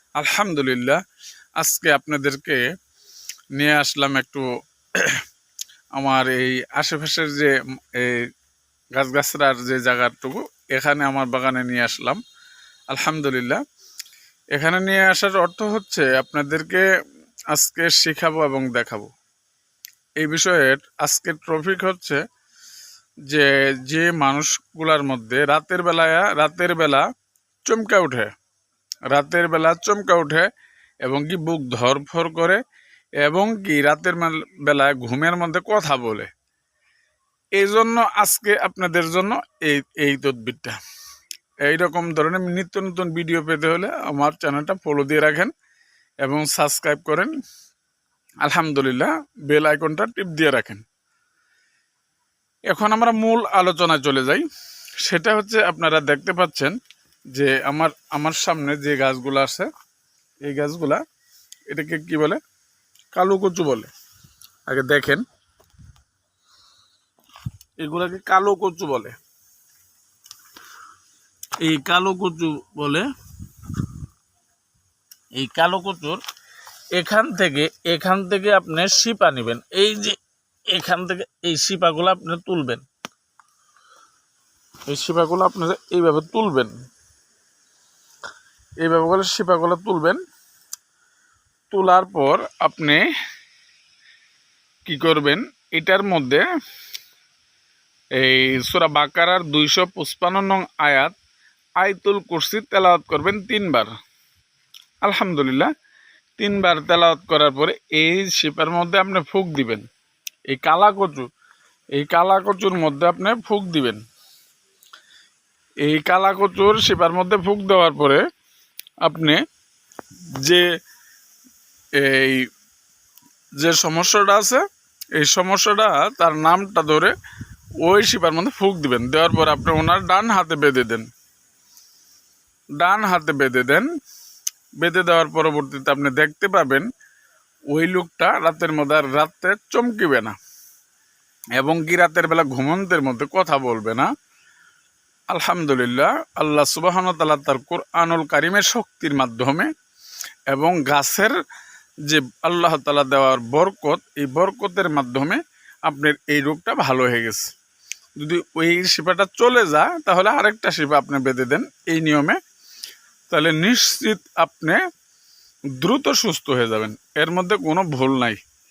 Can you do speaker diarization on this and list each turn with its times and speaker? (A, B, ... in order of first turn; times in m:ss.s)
0:00.2-0:01.0 A
0:01.6-0:02.6 A
0:03.5-0:04.4 A
0:05.0-0:05.2 A
0:06.0-0:08.2 A
0:08.9-0:12.2 A
0:12.9-0:13.6 A
0:14.5-0:16.8 A
0:17.5-0:19.1 A
0:20.2-0:22.2 A
0:23.3-0:27.0 A
0:27.7-0:28.3 A
0:29.1-0:30.4 A
0:31.0-0:32.6 A
0:33.2-0:36.3 A
0:37.6-0:40.8 A
0:41.6-0:45.5 A
0:46.2-0:47.3 A
0:48.4-0:50.8 A
0:52.7-0:54.4 A
0:55.0-0:56.7 A
0:57.3-0:59.7 A
1:00.4-1:01.0 A
1:01.7-1:02.4 A
1:03.1-1:03.9 A
1:04.7-1:05.2 A
1:07.8-1:09.1 A
1:11.6-1:13.1 A
1:15.4-1:16.2 A
1:16.9-1:20.2 A
1:20.7-1:22.8 A
1:24.9-1:26.7 A
1:28.8-1:30.2 A
1:31.7-1:33.0 A
1:34.8-1:36.4 A
1:38.2-1:41.1 A
1:41.8-1:43.9 A
1:45.0-1:45.7 A
1:46.4-1:49.8 A
1:50.5-1:51.3 A
1:51.9-1:54.0 A
1:55.8-1:58.2 A
1:59.0-1:59.4 A
2:00.4-2:00.6 A
2:02.0-2:02.5 A
2:03.6-2:04.6 A
2:05.1-2:07.1 A
2:07.8-2:11.1 A
2:12.8-2:13.9 A
2:14.8-2:16.8 A
2:17.7-2:20.3 A
2:21.6-2:24.1 A
2:25.3-2:29.7 A
2:30.5-2:31.3 A
2:32.1-2:37.5 A
2:38.2-2:42.4 A
2:43.3-2:44.8 A
2:45.8-2:48.4 A